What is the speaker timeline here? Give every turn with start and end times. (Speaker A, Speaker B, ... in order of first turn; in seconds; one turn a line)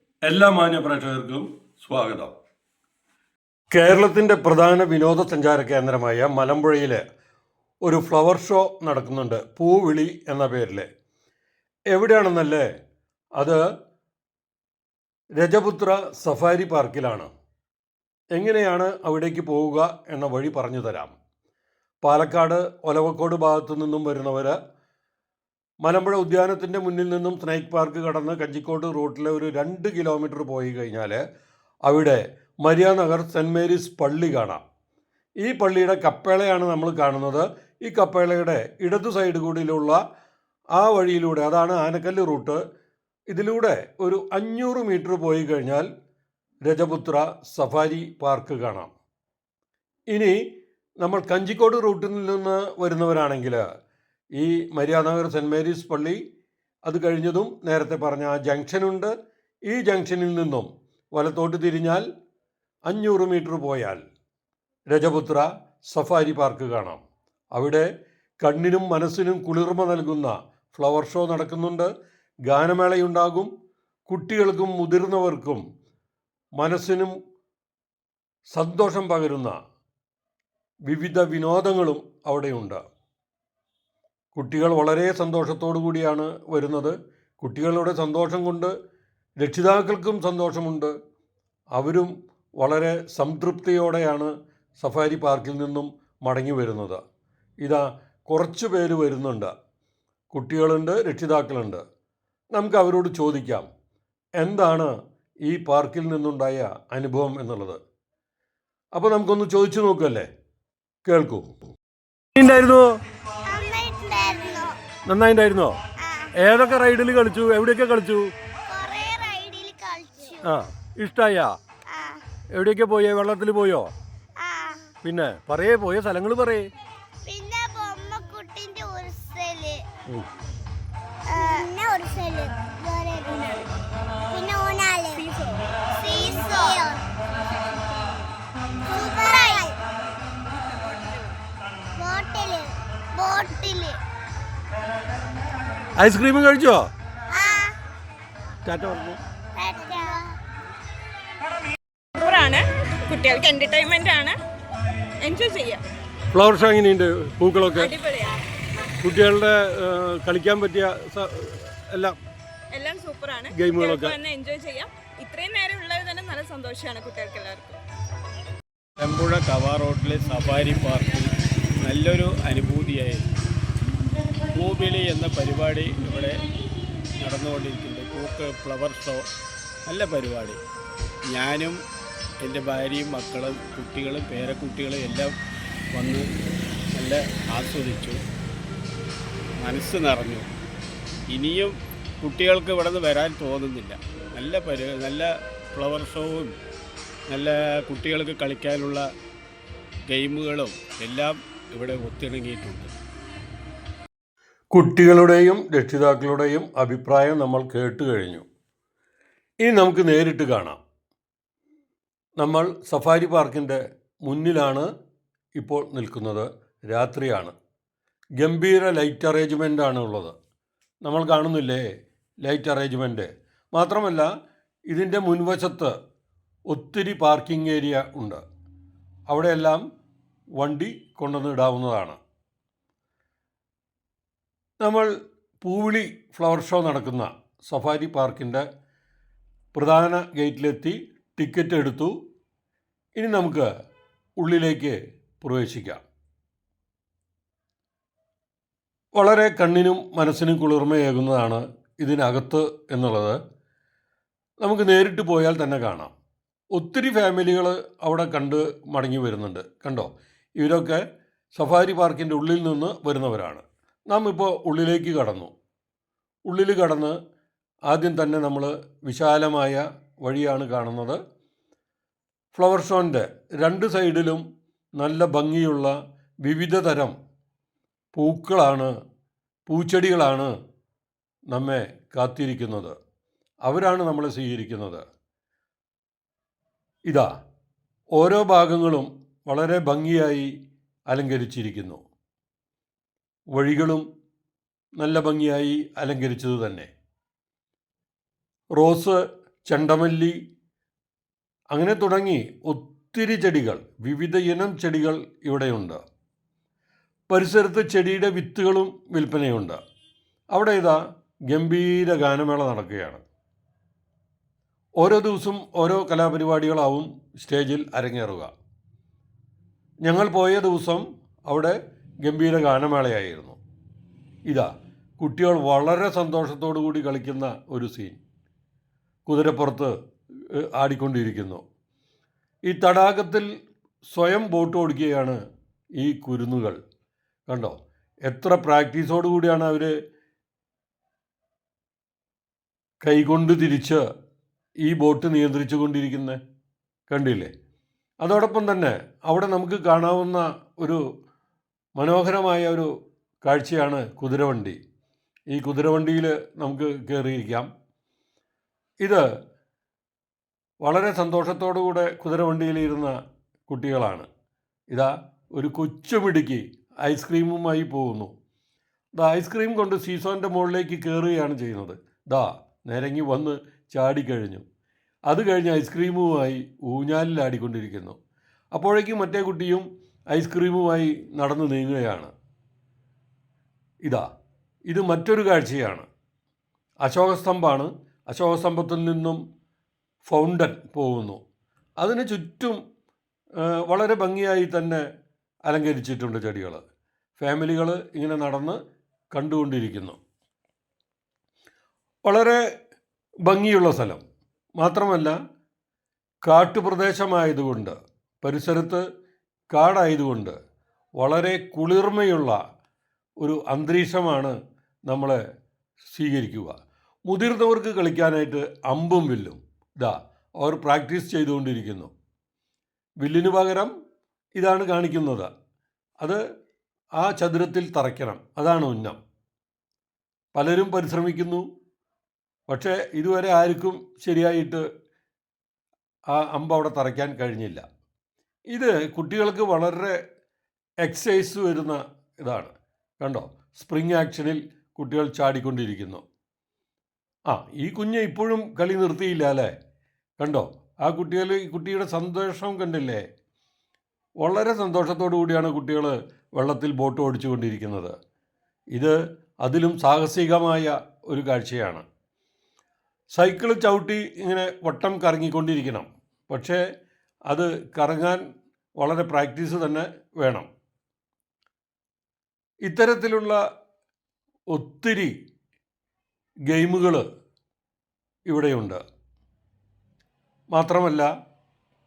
Speaker A: 0.2-2.3
Speaker A: 3.7-7.0
Speaker A: 7.8-10.9
Speaker A: 11.9-12.7
Speaker A: 15.4-17.3
Speaker A: 18.3-21.1
Speaker A: 22.0-24.6
Speaker A: 25.8-31.2
Speaker A: 31.9-34.6
Speaker A: 35.4-40.0
Speaker A: 40.7-42.6
Speaker A: 43.3-45.9
Speaker A: 46.6-48.9
Speaker A: 50.1-50.4
Speaker A: 51.0-53.6
Speaker A: 54.4-56.2
Speaker A: 56.8-59.1
Speaker A: 59.7-62.0
Speaker A: 62.9-64.0
Speaker A: 64.9-67.0
Speaker A: 67.5-67.9
Speaker A: 68.4-71.9
Speaker A: 72.5-73.5
Speaker A: 74.1-75.6
Speaker A: 76.6-77.1
Speaker A: 78.5-79.6
Speaker A: 80.8-82.8
Speaker A: 84.3-88.7
Speaker A: 89.4-90.9
Speaker A: 91.7-97.0
Speaker A: 97.6-99.5
Speaker A: 100.3-101.8
Speaker A: 102.5-103.7
Speaker A: 104.4-104.9
Speaker A: 105.4-107.8
Speaker A: 108.9-110.3
Speaker A: 111.0-111.5
Speaker A: 112.3-113.0
Speaker B: 113.5-114.7
Speaker A: 115.1-115.8
Speaker B: 116.0-116.3
Speaker A: 116.4-118.3
Speaker B: 118.7-120.5
Speaker A: 120.4-121.5
Speaker B: 121.9-122.2
Speaker A: 122.5-123.9
Speaker B: 124.4-124.9
Speaker A: 125.0-126.7
Speaker B: 127.2-129.8
Speaker B: 131.3-133.6
Speaker B: 134.3-135.3
Speaker B: 136.0-137.0
Speaker B: 138.9-139.8
Speaker B: 141.9-144.0
Speaker A: 146.0-146.9
Speaker B: 147.3-147.7
Speaker A: 148.6-149.2
Speaker B: 149.6-150.3
Speaker C: 152.2-154.3
Speaker C: 155.2-155.8
Speaker A: 156.3-157.9
Speaker C: 157.8-158.4
Speaker A: 159.0-162.2
Speaker C: 162.7-167.8
Speaker A: 163.5-164.2
Speaker D: 169.0-171.3
Speaker D: 171.8-173.2
Speaker D: 174.5-176.4
Speaker D: 177.2-179.3
Speaker D: 179.8-180.6
Speaker D: 181.3-181.8
Speaker D: 182.4-185.3
Speaker D: 185.9-186.2
Speaker D: 186.9-188.2
Speaker D: 189.6-190.5
Speaker D: 191.3-196.6
Speaker D: 197.3-199.0
Speaker D: 200.1-202.9
Speaker A: 204.7-208.4
Speaker A: 209.6-210.8
Speaker A: 212.4-214.9
Speaker A: 215.6-217.5
Speaker A: 218.4-220.3
Speaker A: 221.0-221.8
Speaker A: 222.4-224.3
Speaker A: 224.9-225.9
Speaker A: 226.7-228.4
Speaker A: 229.3-229.8
Speaker A: 230.6-232.2
Speaker A: 234.8-235.1
Speaker A: 235.6-238.6
Speaker A: 239.7-242.1
Speaker A: 243.2-243.7
Speaker A: 244.4-246.0
Speaker A: 249.1-253.4
Speaker A: 254.6-256.1
Speaker A: 256.7-261.0
Speaker A: 261.5-265.5
Speaker A: 266.5-267.1
Speaker A: 267.9-271.2
Speaker A: 272.5-274.4
Speaker A: 275.0-275.9
Speaker A: 276.4-277.1
Speaker A: 278.1-278.9
Speaker A: 279.7-280.5
Speaker A: 281.5-282.9
Speaker A: 283.6-285.0
Speaker A: 288.1-290.5
Speaker A: 291.1-292.0
Speaker A: 293.5-294.0
Speaker A: 295.0-296.9
Speaker A: 298.8-300.3
Speaker A: 301.7-306.0
Speaker A: 307.3-309.8
Speaker A: 310.5-311.0
Speaker A: 311.5-313.2
Speaker A: 315.0-318.5
Speaker A: 320.0-323.6
Speaker A: 324.5-328.2
Speaker A: 329.2-329.9
Speaker A: 330.6-331.6
Speaker A: 332.6-333.4
Speaker A: 334.1-335.4
Speaker A: 336.0-336.8
Speaker A: 337.5-337.7
Speaker A: 338.2-339.9
Speaker A: 343.0-344.0
Speaker A: 344.8-346.4
Speaker A: 347.1-347.5
Speaker A: 348.2-351.0
Speaker A: 352.0-352.9
Speaker A: 353.4-354.8
Speaker A: 355.5-357.7
Speaker A: 360.8-363.1
Speaker A: 363.7-364.3
Speaker A: 364.9-368.3
Speaker A: 369.2-374.6
Speaker A: 375.3-378.1
Speaker A: 378.7-382.3
Speaker A: 384.9-386.1
Speaker A: 387.0-389.4
Speaker A: 390.2-391.4
Speaker A: 392.0-392.8
Speaker A: 393.8-395.0
Speaker A: 395.6-396.8
Speaker A: 397.4-398.8
Speaker A: 399.3-400.2
Speaker A: 402.2-402.6
Speaker A: 403.4-404.2
Speaker A: 404.8-405.3
Speaker A: 406.4-409.0
Speaker A: 409.7-410.6
Speaker A: 411.2-412.6
Speaker A: 413.4-414.6
Speaker A: 415.1-415.4
Speaker A: 416.1-416.8
Speaker A: 417.3-422.1
Speaker A: 423.2-423.9
Speaker A: 424.6-425.5
Speaker A: 427.2-429.2
Speaker A: 430.5-431.6
Speaker A: 432.7-434.8
Speaker A: 436.3-437.8
Speaker A: 438.7-440.2
Speaker A: 441.0-446.2
Speaker A: 447.5-449.7
Speaker A: 450.4-453.2
Speaker A: 454.4-458.1
Speaker A: 458.9-462.0
Speaker A: 463.3-466.8
Speaker A: 467.5-468.4
Speaker A: 469.0-470.7
Speaker A: 472.8-473.6
Speaker A: 474.7-475.3
Speaker A: 476.7-477.2
Speaker A: 478.5-479.0
Speaker A: 480.7-481.3